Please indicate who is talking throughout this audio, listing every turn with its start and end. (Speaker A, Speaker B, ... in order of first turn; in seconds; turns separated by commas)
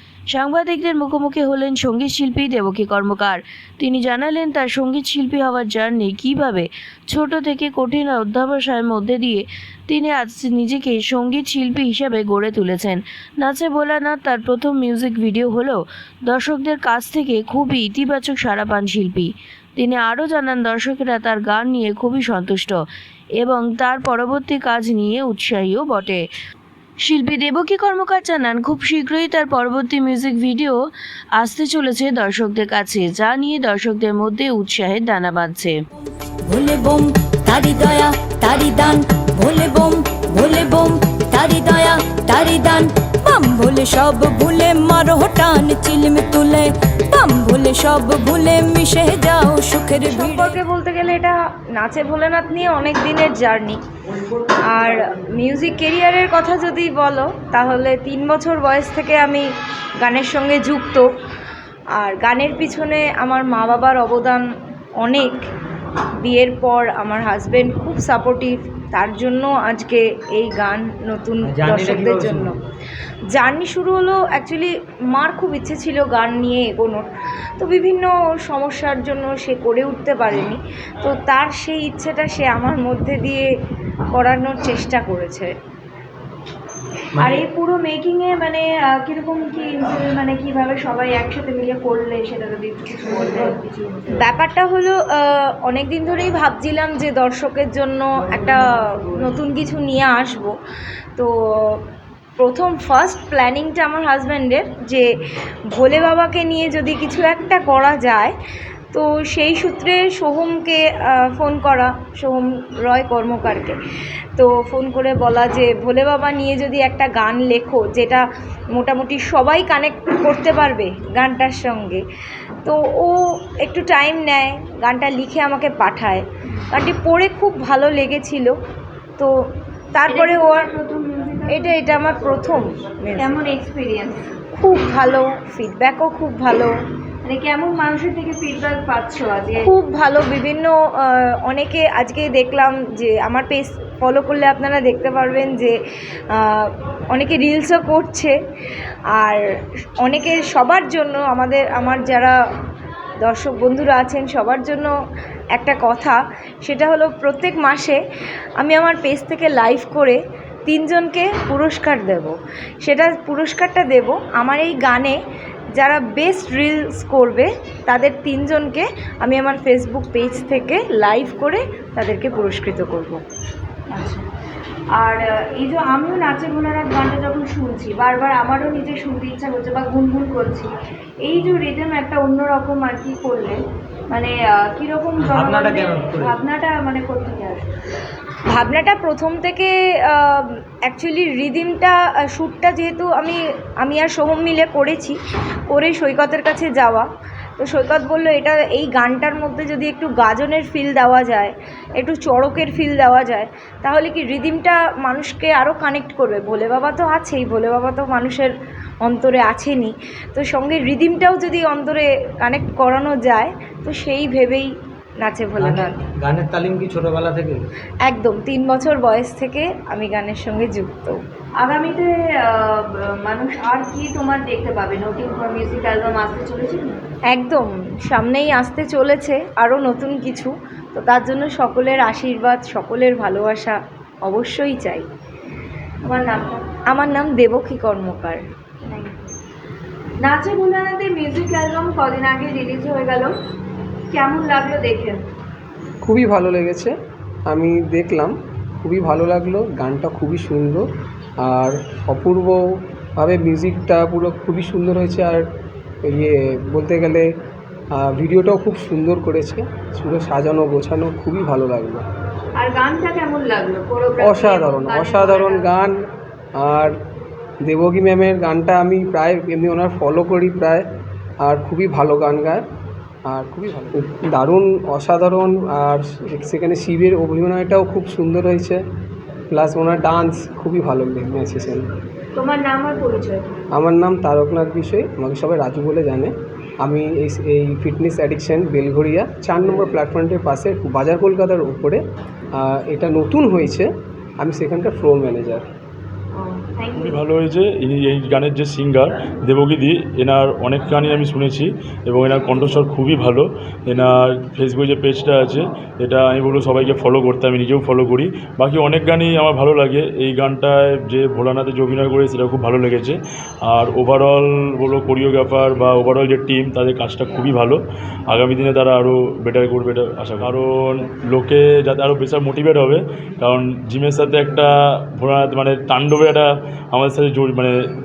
Speaker A: 0.3-22.8, Speaker A: 23.4-26.2, Speaker A: 27.0-30.8, Speaker A: 31.4-35.8, Speaker B: 36.5-50.5, Speaker C: 50.0-53.8, Speaker C: 54.7-59.5, Speaker C: 60.0-61.1, Speaker C: 62.0-64.5, Speaker C: 65.0-65.4, Speaker C: 66.2-72.6, Speaker D: 71.4-72.6, Speaker C: 73.3-77.1, Speaker C: 77.6-83.5, Speaker C: 84.1-85.5, Speaker E: 87.2-94.2, Speaker D: 87.2-87.4, Speaker C: 94.2-100.5, Speaker C: 101.2-101.8, Speaker C: 102.4-105.1, Speaker C: 105.8-108.3, Speaker C: 108.9-113.8, Speaker C: 114.4-122.0, Speaker C: 122.6-128.5, Speaker C: 129.9-130.7, Speaker E: 130.1-131.8, Speaker C: 131.5-133.4, Speaker E: 133.2-134.3, Speaker C: 134.6-136.8, Speaker E: 137.2-139.7, Speaker C: 139.6-145.8, Speaker C: 146.3-148.4, Speaker C: 149.2-149.4, Speaker C: 150.0-152.3, Speaker C: 153.2-154.9, Speaker C: 155.6-158.0, Speaker C: 158.6-162.3, Speaker C: 162.8-165.2, Speaker C: 165.8-173.2, Speaker E: 173.9-174.2, Speaker E: 175.0-180.7, Speaker E: 181.2-187.7, Speaker D: 185.2-186.4, Speaker C: 188.5-197.1, Speaker C: 197.6-208.5, Speaker C: 209.0-216.0, Speaker D: 215.6-217.6, Speaker C: 218.1-221.2, Speaker E: 221.6-227.0, Speaker C: 227.3-235.0, Speaker E: 236.1-236.7, Speaker C: 236.9-238.4, Speaker E: 238.8-239.3, Speaker E: 240.2-243.3, Speaker E: 244.1-245.2, Speaker F: 246.0-246.9, Speaker F: 247.5-250.9, Speaker F: 251.4-255.4, Speaker F: 256.1-257.3, Speaker F: 257.9-262.1, Speaker E: 262.6-265.8, Speaker F: 264.2-266.1, Speaker F: 266.6-266.9, Speaker F: 267.6-270.9, Speaker F: 271.4-272.6, Speaker F: 273.3-278.8, Speaker F: 279.5-281.9, Speaker E: 282.3-283.4, Speaker F: 283.7-292.0, Speaker F: 292.6-295.6, Speaker E: 296.3-297.2, Speaker G: 297.0-327.8